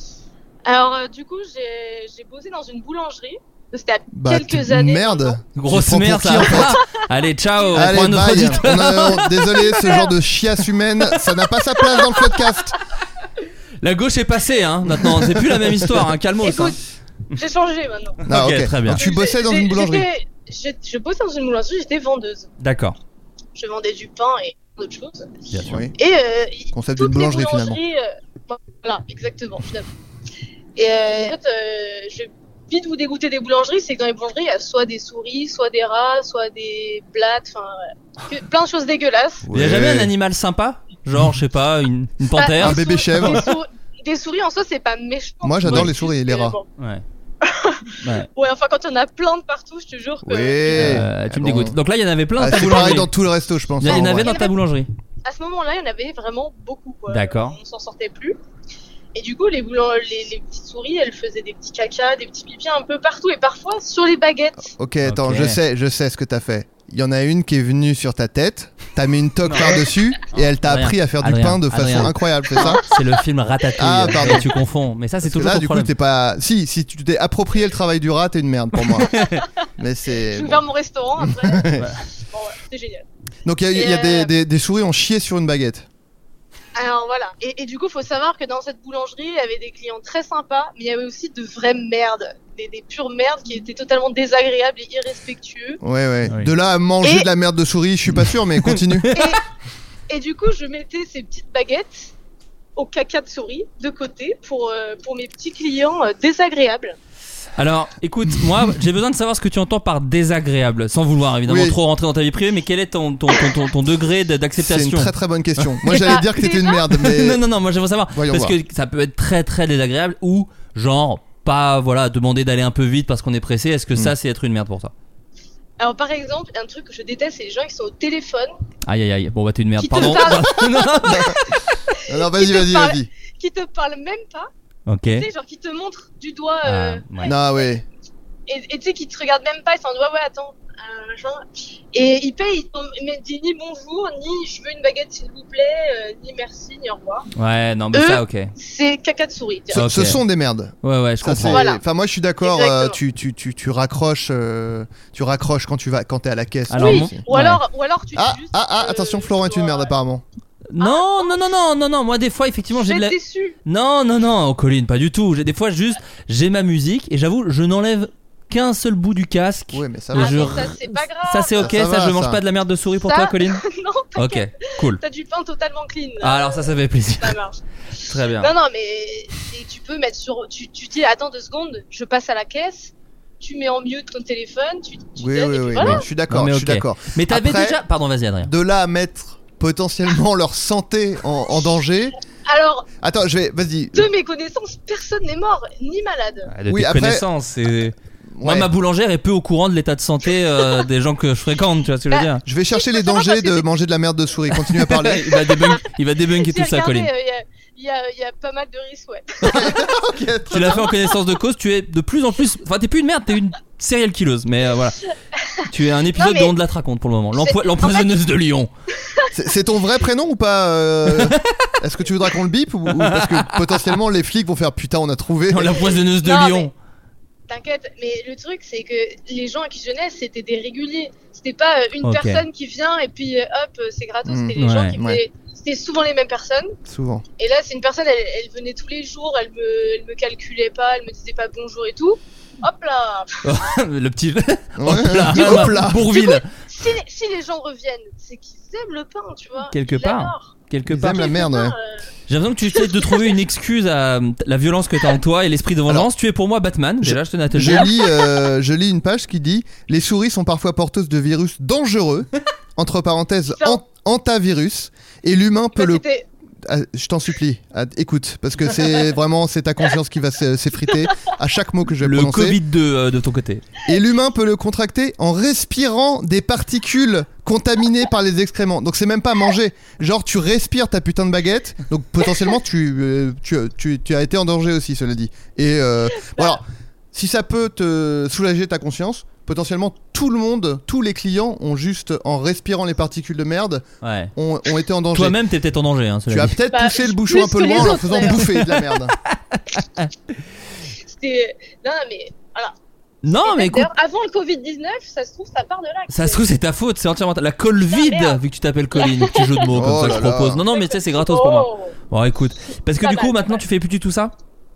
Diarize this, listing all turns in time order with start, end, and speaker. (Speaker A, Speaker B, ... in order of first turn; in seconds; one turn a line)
Speaker A: 0.7-5.4
Speaker B: 4.1-6.8
Speaker C: 5.6-9.7
Speaker A: 7.6-10.1
Speaker B: 7.7-12.8
Speaker C: 13.8-16.8
Speaker B: 14.9-16.1
Speaker A: 16.4-16.8
Speaker A: 17.3-18.2
Speaker C: 18.2-19.0
Speaker B: 18.2-20.1
Speaker A: 18.9-22.5
Speaker C: 22.6-23.0
Speaker A: 23.6-25.3
Speaker C: 25.5-25.8
Speaker B: 25.7-25.9
Speaker A: 26.0-29.9
Speaker B: 26.7-27.8
Speaker A: 30.8-39.5
Speaker B: 39.5-40.1
Speaker C: 39.5-43.4
Speaker A: 42.4-46.6
Speaker B: 42.6-43.5
Speaker B: 45.4-46.6
Speaker C: 45.6-45.9
Speaker C: 46.8-47.0
Speaker A: 47.4-51.0
Speaker B: 50.2-51.8
Speaker C: 50.7-53.1
Speaker B: 52.4-54.3
Speaker C: 53.8-54.9
Speaker A: 53.9-54.5
Speaker A: 55.2-58.4
Speaker C: 57.1-57.6
Speaker A: 59.1-64.7
Speaker B: 64.8-72.9
Speaker C: 65.1-65.6
Speaker C: 69.4-69.8
Speaker C: 70.3-75.9
Speaker B: 73.8-74.5
Speaker B: 75.2-79.1
Speaker C: 78.8-79.4
Speaker B: 79.8-80.6
Speaker A: 80.3-83.0
Speaker B: 81.2-81.9
Speaker B: 83.4-85.9
Speaker A: 83.7-84.3
Speaker A: 86.8-95.8
Speaker B: 95.8-99.1
Speaker C: 98.2-99.3
Speaker A: 99.1-99.4
Speaker A: 100.1-102.1
Speaker A: 102.8-107.0
Speaker C: 107.6-115.7
Speaker B: 111.5-111.8
Speaker B: 114.6-117.4
Speaker A: 115.9-116.8
Speaker C: 116.9-124.9
Speaker B: 118.1-118.6
Speaker A: 125.8-128.5
Speaker C: 128.9-131.3
Speaker A: 129.8-131.1
Speaker B: 131.1-131.4
Speaker B: 132.0-133.1
Speaker A: 132.3-134.5
Speaker C: 134.9-135.2
Speaker A: 135.2-137.3
Speaker C: 136.6-137.3
Speaker B: 137.2-137.8
Speaker A: 138.5-147.3
Speaker C: 147.4-148.5
Speaker A: 147.9-149.8
Speaker B: 149.7-157.2
Speaker C: 149.8-150.2
Speaker C: 150.8-151.6
Speaker A: 151.5-151.8
Speaker A: 152.4-153.0
Speaker C: 156.7-157.6
Speaker A: 156.8-159.9
Speaker B: 158.2-160.2
Speaker C: 160.7-173.6
Speaker A: 160.8-161.4
Speaker A: 162.8-163.6
Speaker B: 169.7-170.7
Speaker A: 170.2-171.8
Speaker B: 171.6-172.4
Speaker A: 173.0-174.4
Speaker C: 174.2-175.0
Speaker A: 174.9-186.0
Speaker C: 176.2-177.4
Speaker C: 178.0-178.5
Speaker B: 185.2-187.8
Speaker C: 185.8-188.5
Speaker B: 188.4-192.1
Speaker A: 192.5-192.9
Speaker B: 193.0-194.1
Speaker A: 193.9-196.5
Speaker C: 196.5-202.4
Speaker B: 196.7-197.3
Speaker B: 198.3-198.7
Speaker B: 202.4-205.3
Speaker A: 202.7-203.7
Speaker C: 204.7-207.1
Speaker A: 206.4-209.8
Speaker B: 209.5-210.9
Speaker C: 210.5-215.0
Speaker A: 215.4-216.5
Speaker C: 215.7-218.7
Speaker A: 217.4-218.1
Speaker A: 219.0-219.3
Speaker B: 219.3-225.9
Speaker C: 221.1-221.4
Speaker C: 222.9-223.9
Speaker C: 225.5-226.7
Speaker A: 226.2-226.7
Speaker A: 227.5-236.8
Speaker C: 232.0-232.4
Speaker B: 234.2-235.2
Speaker C: 234.6-235.0
Speaker B: 236.9-237.2
Speaker A: 237.4-243.4
Speaker C: 243.4-246.5
Speaker B: 244.8-246.1
Speaker A: 245.4-250.5
Speaker C: 249.7-251.3
Speaker B: 250.9-251.8
Speaker A: 251.1-252.1
Speaker C: 252.3-257.9
Speaker B: 257.0-266.0
Speaker A: 263.6-263.8
Speaker A: 265.8-266.2
Speaker B: 266.6-272.6
Speaker C: 272.0-273.6
Speaker B: 273.9-295.4
Speaker A: 286.2-286.6
Speaker C: 294.0-294.3
Speaker C: 295.1-296.6
Speaker B: 296.3-299.1
Speaker A: 296.7-298.4
Speaker C: 299.5-300.1
Speaker A: 301.1-302.7
Speaker C: 303.2-303.9
Speaker A: 303.3-306.4
Speaker C: 306.1-314.3
Speaker A: 307.9-308.4
Speaker A: 309.0-309.6
Speaker B: 309.7-310.6
Speaker A: 310.7-311.9
Speaker A: 313.0-313.6